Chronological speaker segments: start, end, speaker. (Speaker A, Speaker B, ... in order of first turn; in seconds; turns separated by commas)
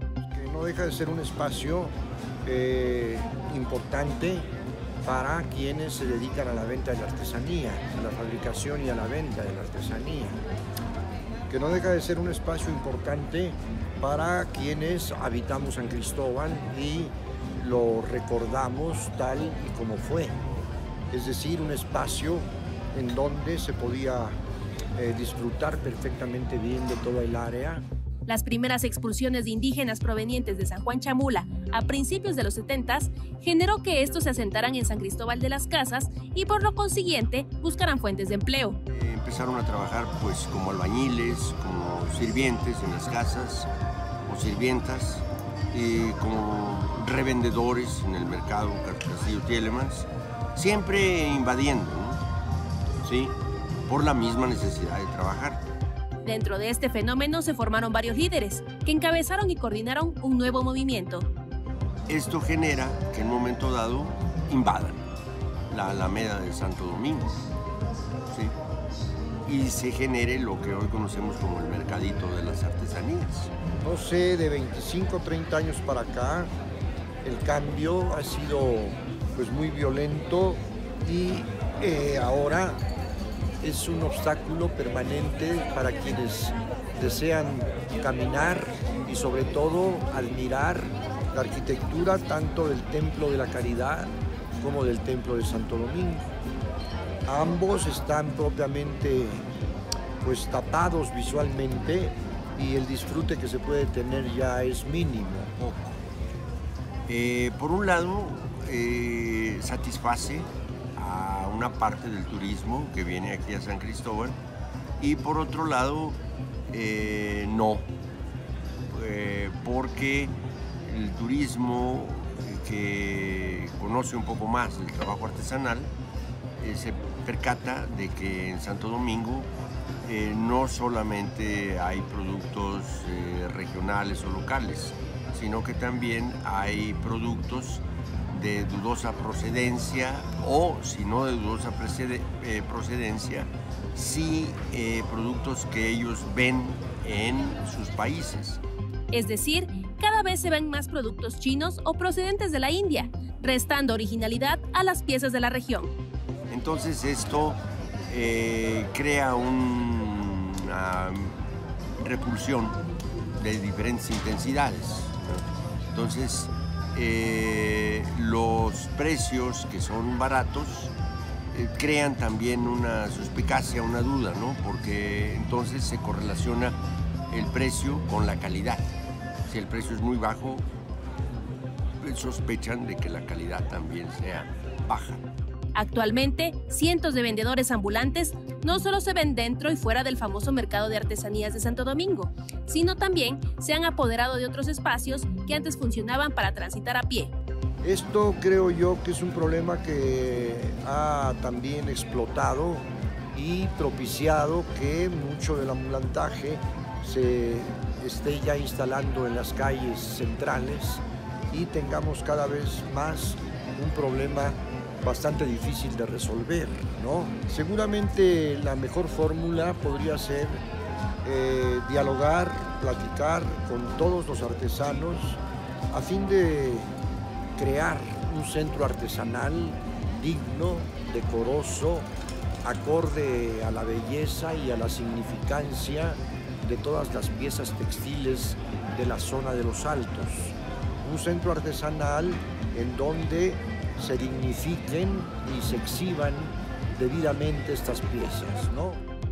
Speaker A: 0.2-1.9, Speaker A: 2.5-4.5, Speaker A: 5.0-10.4, Speaker A: 11.5-20.4, Speaker A: 21.1-24.4, Speaker A: 24.9-27.8, Speaker B: 28.3-38.8, Speaker C: 38.9-43.7, Speaker C: 44.3-52.2, Speaker C: 53.0-53.4, Speaker C: 53.9-55.6, Speaker B: 56.2-61.3, Speaker C: 62.1-65.1, Speaker C: 65.7-67.5, Speaker C: 69.5-73.5, Speaker A: 73.8-76.5, Speaker A: 77.2-82.8, Speaker A: 83.6-96.2, Speaker A: 97.3-99.5, Speaker A: 100.2-105.5, Speaker C: 105.6-106.0, Speaker C: 107.1-114.4, Speaker C: 115.0-116.2, Speaker C: 116.7-117.9, Speaker C: 118.9-120.3, Speaker C: 120.9-125.9, Speaker C: 126.6-129.5, Speaker C: 130.0-148.6, Speaker B: 149.1-155.9, Speaker C: 156.5-161.4, Speaker C: 162.0-162.8, Speaker C: 163.4-170.9, Speaker C: 171.5-176.8, Speaker C: 177.3-178.9, Speaker C: 179.5-180.7, Speaker C: 182.0-185.2, Speaker B: 185.8-197.3, Speaker A: 197.8-220.6, Speaker A: 221.2-225.4, Speaker A: 225.9-226.9, Speaker A: 227.6-232.1, Speaker A: 232.6-249.0